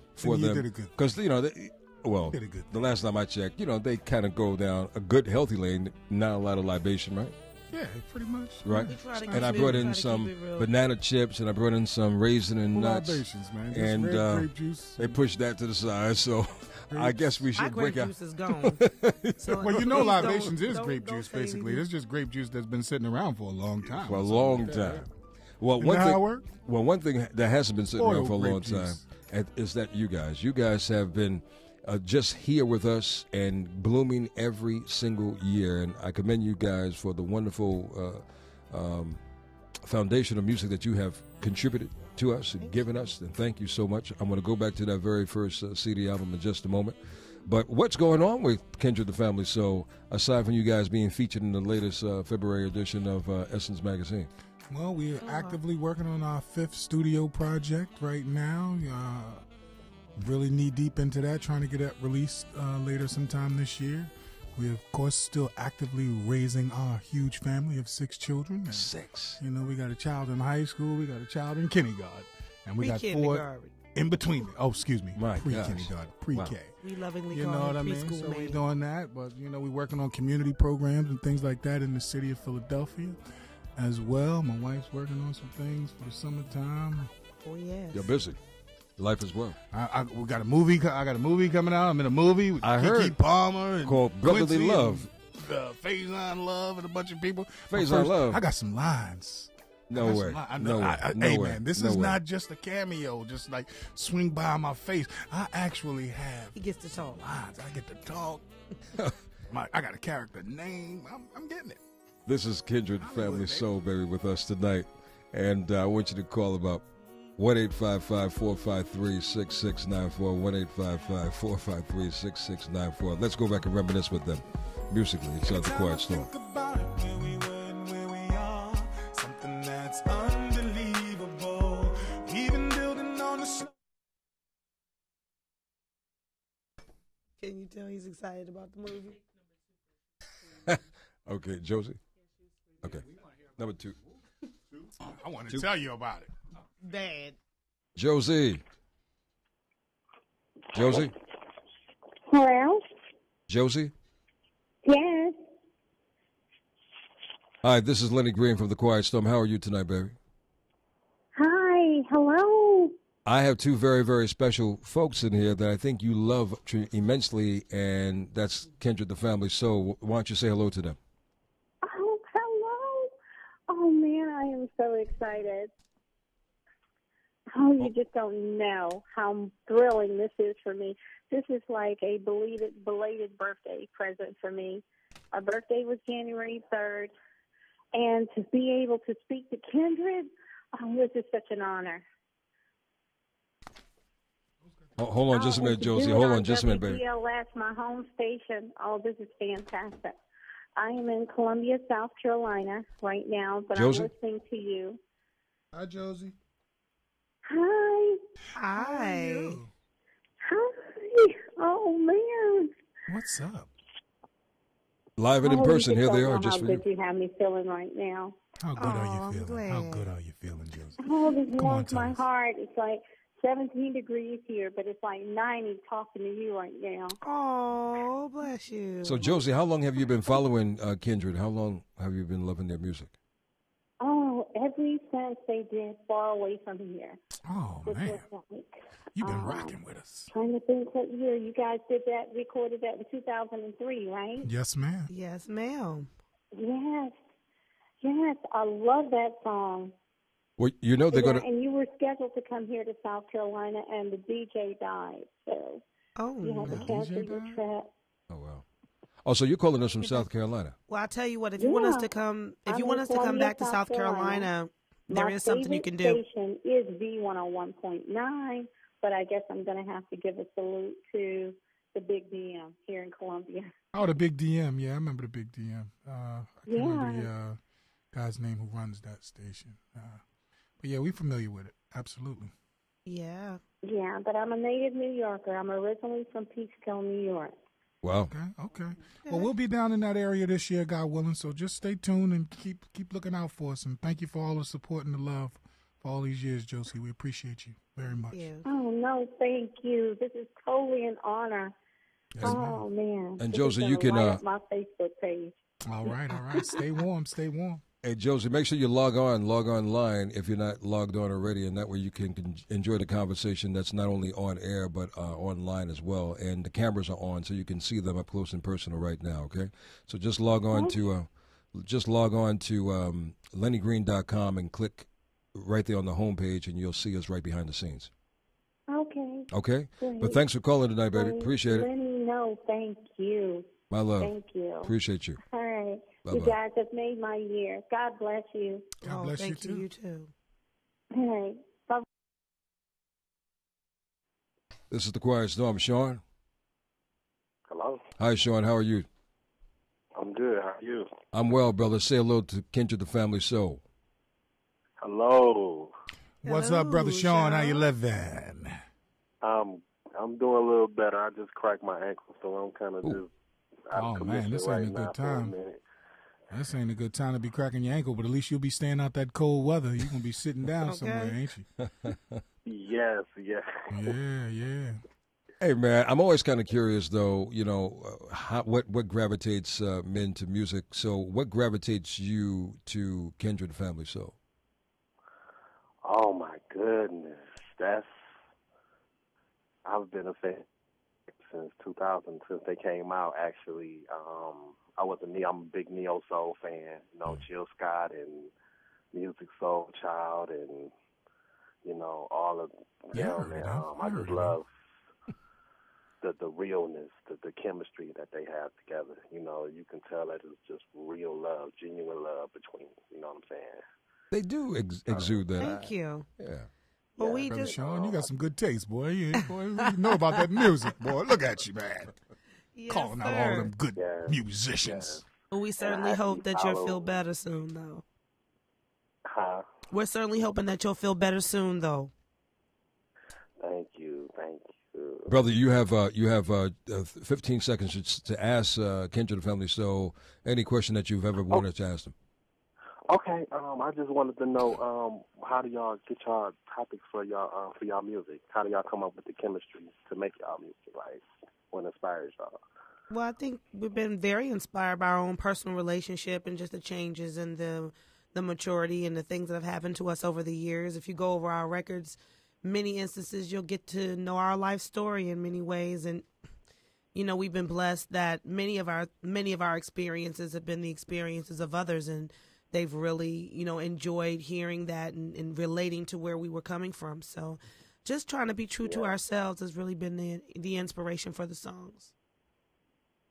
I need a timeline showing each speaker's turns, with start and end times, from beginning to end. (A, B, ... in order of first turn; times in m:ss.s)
0:00.2-0:07.4 A
0:00.2-0:01.0 B
0:02.3-0:02.7 B
0:07.7-0:09.9 B
0:08.6-0:20.1 A
0:08.9-0:10.7 C
0:12.7-0:15.2 B
0:16.9-0:17.4 B
0:17.6-0:18.8 C
0:19.4-0:21.8 C
0:19.6-0:25.1 B
0:24.0-0:25.1 A
0:25.6-0:39.2 A
0:25.8-0:26.5 B
0:27.9-0:29.0 B
0:39.8-0:54.3 A
0:54.7-0:59.4 B
0:55.2-0:55.6 C
1:00.2-1:16.7 B
1:08.7-1:09.4 A
1:12.8-1:13.7 C
1:15.2-1:16.5 A
1:16.8-1:18.6 C
1:17.3-1:23.2 B
1:23.8-1:27.1 B
1:27.4-1:28.1 C
1:27.9-1:28.4 A
1:29.0-1:29.6 A
1:29.7-1:46.6 B
1:32.6-1:33.2 A
1:33.8-1:35.1 A
1:37.7-1:38.4 A
1:39.9-1:42.2 A
1:46.5-1:47.2 C
1:47.1-1:48.5 B
1:49.5-1:51.8 B
1:52.2-1:56.8 A
1:53.0-1:53.7 B
1:57.4-2:06.3 A
2:05.4-2:13.7 B
2:17.4-2:19.2 C
2:20.6-2:22.0 A
2:22.8-2:24.0 A
2:25.0-2:26.3 B
2:26.8-2:27.4 C
2:27.9-2:28.6 A
2:30.7-2:31.1 A
2:32.3-2:32.8 D
2:33.5-2:33.9 A
2:34.9-2:35.4 D
2:37.6-2:40.2 A
2:41.4-2:42.9 D
2:43.2-2:51.0 A
2:51.8-2:53.1 D
2:53.7-2:55.7 D
2:57.5-3:07.1 D
3:07.9-3:12.0 D
3:15.0-3:17.0 A
3:15.3-3:20.2 D
3:20.8-3:25.0 D
3:23.7-3:24.1 A
3:25.7-3:26.4 B
3:27.5-3:28.2 D
3:28.5-3:29.6 C
3:28.7-3:29.7 B
3:30.4-3:32.7 D
3:33.1-3:33.7 B
3:35.2-3:36.8 A
3:35.4-3:38.4 D
3:38.6-3:42.2 B
3:38.8-3:40.1 C
3:41.0-3:47.2 D
3:47.2-3:49.3 C
3:49.0-3:53.1 A
3:54.0-3:57.2 D
3:57.4-3:58.2 B
3:57.9-3:59.7 D
3:59.2-4:00.3 B
4:00.3-4:04.5 D
4:04.4-4:05.1 B
4:05.1-4:06.1 C
4:06.5-4:07.1 D
4:08.0-4:09.9 D
4:10.6-4:11.4 A
4:11.1-4:15.8 D
4:16.2-4:16.9 C
4:16.4-4:17.9 D
4:16.6-4:17.6 B
4:18.3-4:18.6 A
4:19.2-4:20.7 A
4:20.9-4:26.2 C
4:21.6-4:22.1 D
4:22.7-4:24.5 D
4:25.1-4:33.7 D
4:33.9-4:37.6 B
4:36.7-4:37.3 D
4:38.1-4:40.2 B
4:40.8-4:42.5 B
4:43.0-4:43.6 C
4:43.8-4:47.5 D
4:48.0-4:48.3 A
4:48.3-4:58.5 B
4:49.2-4:49.5 C
4:58.3-4:58.6 C
4:58.6-5:01.7 D
5:02.4-5:02.8 B
5:02.4-5:05.5 D
5:03.4-5:04.4 A
5:05.8-5:07.8 B
5:08.0-5:28.1 A
5:28.9-5:29.5 D
5:29.5-5:31.9 A
5:30.0-5:30.4 D
5:31.1-5:33.7 D
5:33.9-5:35.4 A
5:34.2-5:34.9 D
5:35.4-5:38.9 D
5:36.2-5:36.6 A
5:39.0-5:39.8 B
5:39.0-5:40.3 C
5:41.1-5:42.0 D
5:44.9-5:46.2 A
5:47.7-5:48.0 E
5:48.2-5:49.1 A
5:50.2-5:51.1 E
5:51.3-5:53.8 A
5:55.0-5:55.9 E
5:56.4-5:58.8 B
5:56.4-5:57.8 C
5:59.4-6:03.3 E
6:03.9-6:05.8 E
6:03.9-6:05.5 B
6:06.5-6:11.7 B
6:10.8-6:11.4 C
6:11.8-6:12.4 A
6:12.6-6:14.1 E
6:13.9-6:15.0 B
6:15.6-6:24.4 A
6:26.0-6:28.1 E
6:29.8-6:30.6 E
6:31.4-6:38.5 E
6:39.1-6:40.9 E
6:41.8-6:44.7 E
6:43.1-6:44.6 B
6:46.2-6:53.8 E
6:54.3-6:56.7 A
6:55.1-6:55.4 E
6:55.6-6:56.3 C
6:57.2-6:57.7 C
6:57.2-6:58.3 E
6:57.4-7:02.1 B
6:59.4-7:00.4 C
7:02.7-7:03.7 C
7:02.9-7:05.2 B
7:03.9-7:05.2 E
7:05.5-7:08.0 C
7:05.8-7:07.2 E
7:09.2-7:09.6 E
7:09.9-7:12.1 C
7:13.6-7:15.3 E
7:15.3-7:22.1 A
7:23.1-7:32.6 E
7:33.1-7:46.3 C
7:47.1-8:02.1 C
7:58.9-7:59.2 E